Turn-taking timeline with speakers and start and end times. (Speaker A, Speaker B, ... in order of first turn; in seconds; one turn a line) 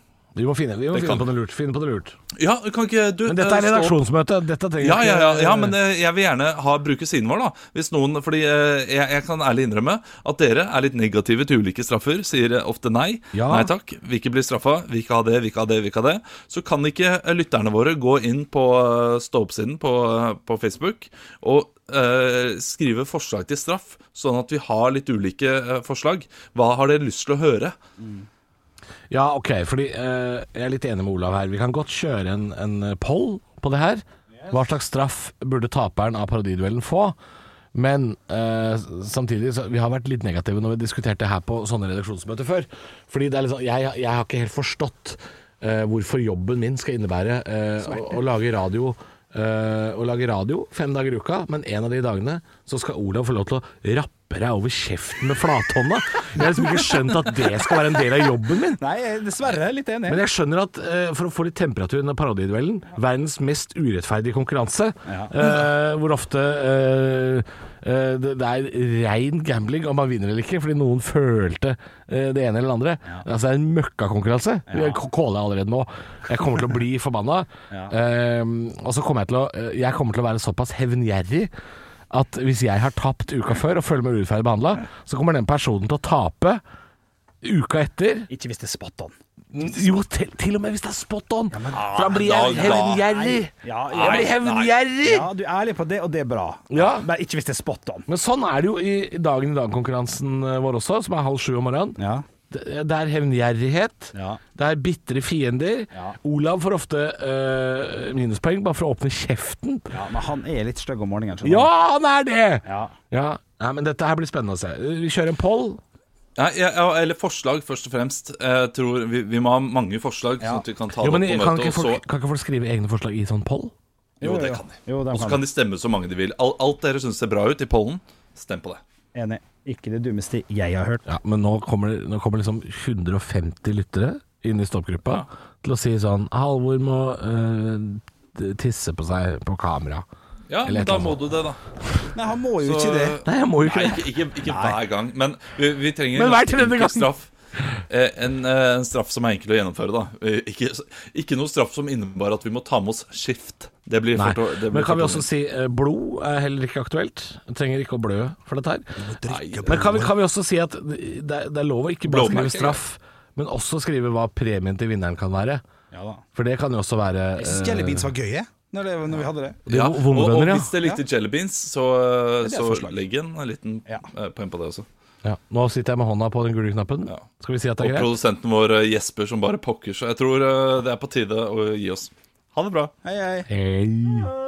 Speaker A: 0.3-2.1
Speaker B: 0.9-1.2
Speaker B: 2.4-4.0
Speaker A: 3.3-5.7
Speaker B: 4.8-27.7
Speaker A: 13.3-13.7
Speaker A: 29.1-37.1
Speaker A: 37.7-58.8
Speaker C: 58.0-60.2
Speaker A: 60.1-81.5
Speaker C: 65.0-65.3
Speaker C: 74.7-75.0
Speaker A: 82.1-86.6
Speaker A: 87.4-88.3
Speaker C: 88.3-89.2
Speaker A: 89.5-95.3
Speaker C: 91.5-98.0
Speaker B: 92.2-93.0
Speaker B: 93.9-94.7
Speaker A: 96.7-97.1
Speaker A: 98.1-109.9
Speaker C: 102.0-102.2
Speaker C: 104.1-104.4
Speaker C: 109.9-111.7
Speaker A: 111.4-115.8
Speaker C: 112.6-112.9
Speaker B: 116.3-122.0
Speaker C: 120.4-120.6
Speaker A: 121.0-123.7
Speaker C: 124.2-125.4
Speaker B: 124.2-128.8
Speaker C: 129.1-131.1
Speaker A: 131.1-140.0
Speaker B: 140.5-141.6
Speaker A: 140.6-141.2
Speaker C: 142.1-143.2
Speaker B: 142.6-147.3
Speaker A: 143.2-144.0
Speaker C: 144.5-144.8
Speaker A: 146.1-147.1
Speaker B: 147.9-155.2
Speaker A: 154.1-158.9
Speaker C: 159.0-160.1
Speaker B: 159.3-159.9
Speaker A: 159.6-165.6
Speaker B: 162.1-162.8
Speaker C: 165.9-166.2
Speaker A: 166.3-168.1
Speaker C: 167.4-169.7
Speaker A: 169.7-170.7
Speaker B: 169.7-174.8
Speaker C: 172.4-173.0
Speaker A: 175.2-178.1
Speaker B: 177.8-182.9
Speaker C: 183.0-183.5
Speaker A: 183.5-184.3